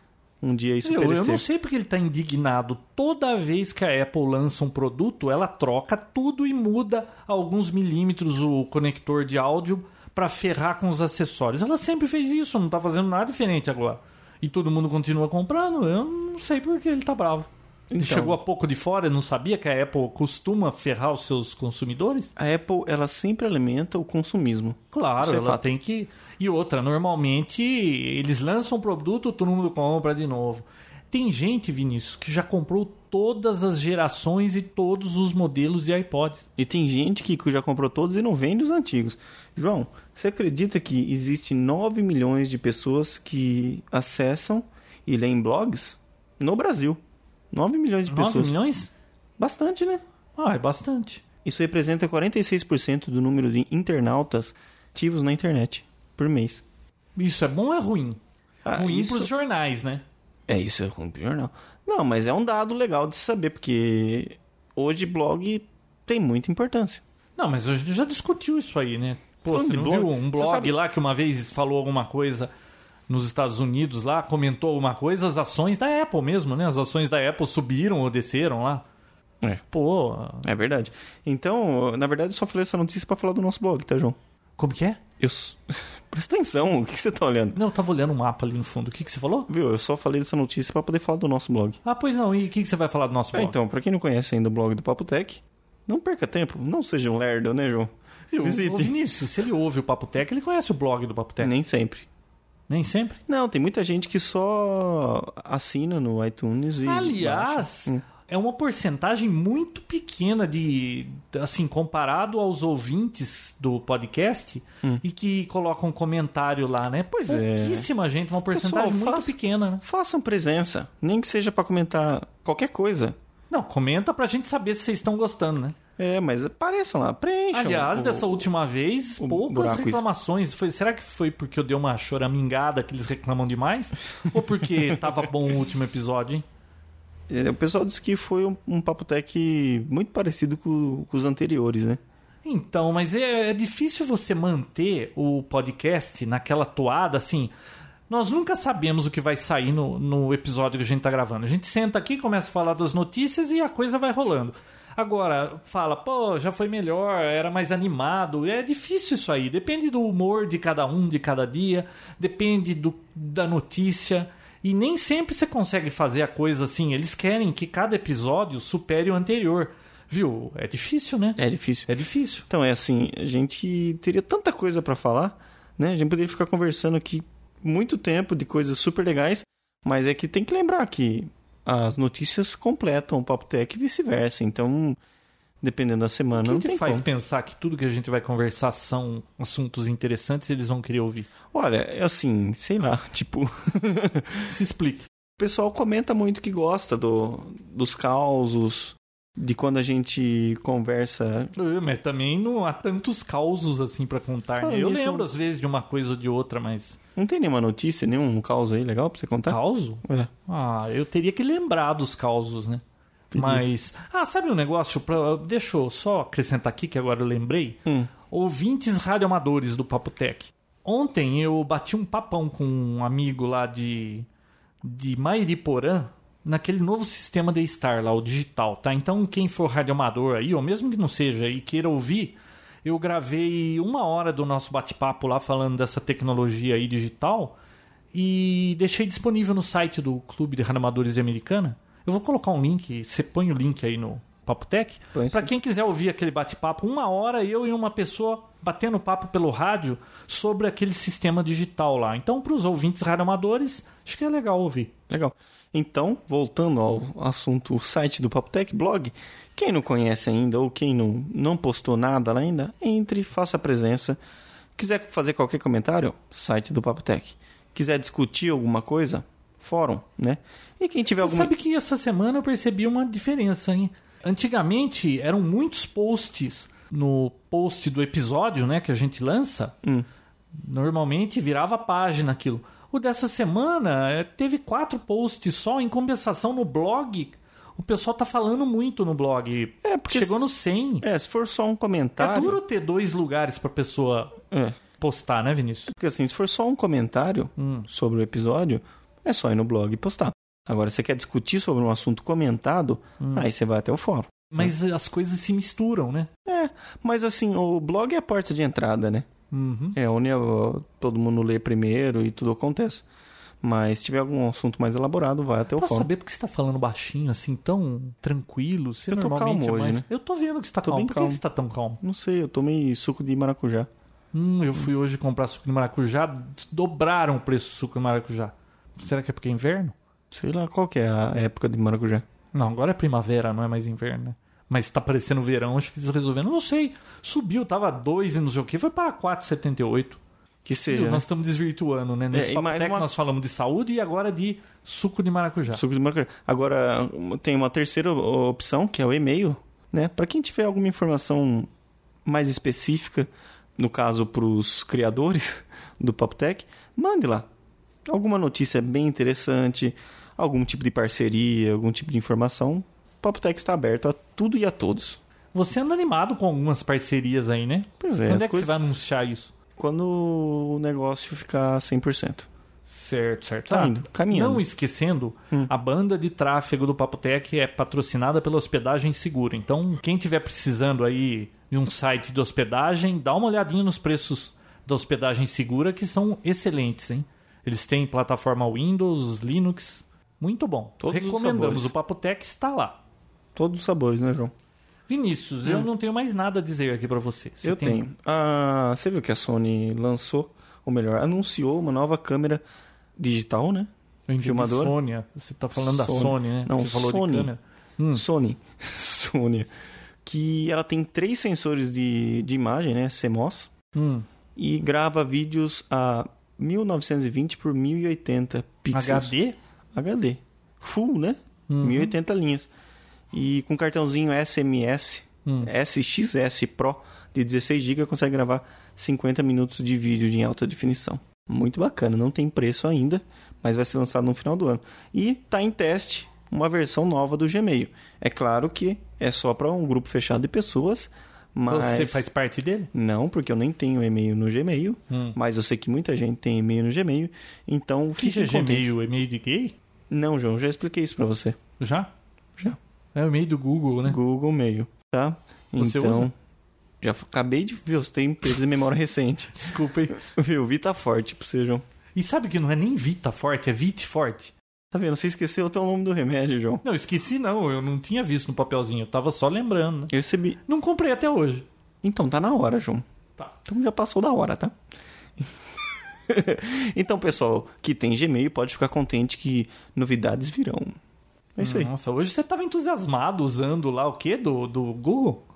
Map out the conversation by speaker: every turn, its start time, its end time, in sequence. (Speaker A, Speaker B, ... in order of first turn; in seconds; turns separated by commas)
Speaker A: 0.4-1.4, Speaker B: 0.8-22.3, Speaker A: 17.9-18.4, Speaker A: 22.4-25.7, Speaker B: 24.9-36.5, Speaker A: 36.6-47.0, Speaker A: 47.5-48.6, Speaker B: 48.1-48.9, Speaker A: 49.4-50.0, Speaker B: 50.4-51.2, Speaker A: 51.5-56.6, Speaker B: 57.2-58.2, Speaker A: 58.6-59.3, Speaker B: 58.7-60.0, Speaker A: 60.5-67.0, Speaker B: 67.4-72.5, Speaker A: 69.5-70.7, Speaker B: 73.1-78.8, Speaker B: 79.7-80.5, Speaker A: 80.4-84.2, Speaker B: 84.6-85.0, Speaker A: 85.2-87.6, Speaker B: 87.5-89.5, Speaker A: 89.5-91.8, Speaker B: 91.8-93.6, Speaker A: 93.3-97.9, Speaker B: 98.3-101.5, Speaker A: 98.4-99.0, Speaker A: 101.4-102.1, Speaker B: 102.7-103.2, Speaker A: 103.3-108.0, Speaker B: 106.8-119.8, Speaker A: 117.1-117.9, Speaker A: 118.5-123.2, Speaker B: 123.5-125.8, Speaker A: 126.0-128.5, Speaker B: 127.5-136.4, Speaker A: 129.2-130.0, Speaker A: 134.7-134.9, Speaker A: 137.3-142.0, Speaker B: 142.4-147.5, Speaker B: 148.1-172.5, Speaker A: 171.4-171.9, Speaker A: 172.5-185.0, Speaker A: 185.6-187.1, Speaker B: 186.3-191.3, Speaker A: 191.5-194.5, Speaker B: 194.5-195.1, Speaker A: 195.4-201.5, Speaker B: 201.6-207.0, Speaker A: 204.6-205.3, Speaker A: 207.2-210.3, Speaker B: 209.5-212.8, Speaker A: 213.3-213.7, Speaker B: 213.3-224.3, Speaker B: 224.8-237.6, Speaker B: 238.1-254.9, Speaker A: 245.1-245.5, Speaker A: 255.1-264.2, Speaker A: 264.8-271.5, Speaker B: 271.1-279.8, Speaker B: 280.6-291.1, Speaker A: 289.8-290.4, Speaker A: 291.0-292.6, Speaker B: 292.2-294.4, Speaker A: 294.5-294.8, Speaker B: 295.0-295.9, Speaker A: 295.9-304.7, Speaker B: 297.6-297.9, Speaker B: 303.2-303.5, Speaker B: 304.5-306.3, Speaker A: 306.5-309.3, Speaker B: 309.5-310.0, Speaker A: 309.9-313.1, Speaker A: 313.6-316.1, Speaker B: 315.8-322.0, Speaker A: 319.1-320.1, Speaker A: 320.8-321.4, Speaker A: 322.0-323.9, Speaker B: 324.3-329.9, Speaker A: 330.3-332.2, Speaker B: 332.5-340.2, Speaker A: 340.6-341.2, Speaker B: 340.9-345.8, Speaker A: 342.3-343.1, Speaker A: 345.7-351.7, Speaker A: 352.3-357.5, Speaker A: 358.1-365.2, Speaker B: 365.5-369.5, Speaker A: 368.0-368.7, Speaker A: 369.8-372.5, Speaker B: 372.9-393.0, Speaker A: 373.7-374.6, Speaker A: 391.0-391.9, Speaker A: 393.6-394.5, Speaker B: 395.1-398.0, Speaker A: 397.6-402.6, Speaker A: 403.2-405.0, Speaker B: 404.3-408.2, Speaker A: 405.8-407.5, Speaker A: 408.1-409.7, Speaker A: 410.2-413.7, Speaker B: 413.9-414.3, Speaker A: 414.6-419.3, Speaker B: 418.9-419.6, Speaker A: 419.9-422.7, Speaker B: 421.7-422.1, Speaker A: 423.3-442.2, Speaker B: 441.7-442.9, Speaker A: 442.9-448.9, Speaker B: 445.1-445.4, Speaker B: 448.2-449.8, Speaker A: 450.1-451.6, Speaker B: 451.8-452.1, Speaker B: 453.1-454.2, Speaker A: 454.1-456.3, Speaker B: 455.8-456.3, Speaker A: 457.0-461.8, Speaker B: 459.6-460.2, Speaker B: 462.2-464.5, Speaker A: 464.9-466.8, Speaker B: 466.8-470.1, Speaker A: 470.1-470.6, Speaker B: 470.7-471.7, Speaker A: 472.0-473.0, Speaker A: 473.6-474.7, Speaker A: 476.3-481.0, Speaker A: 481.6-481.9, Speaker B: 481.6-485.4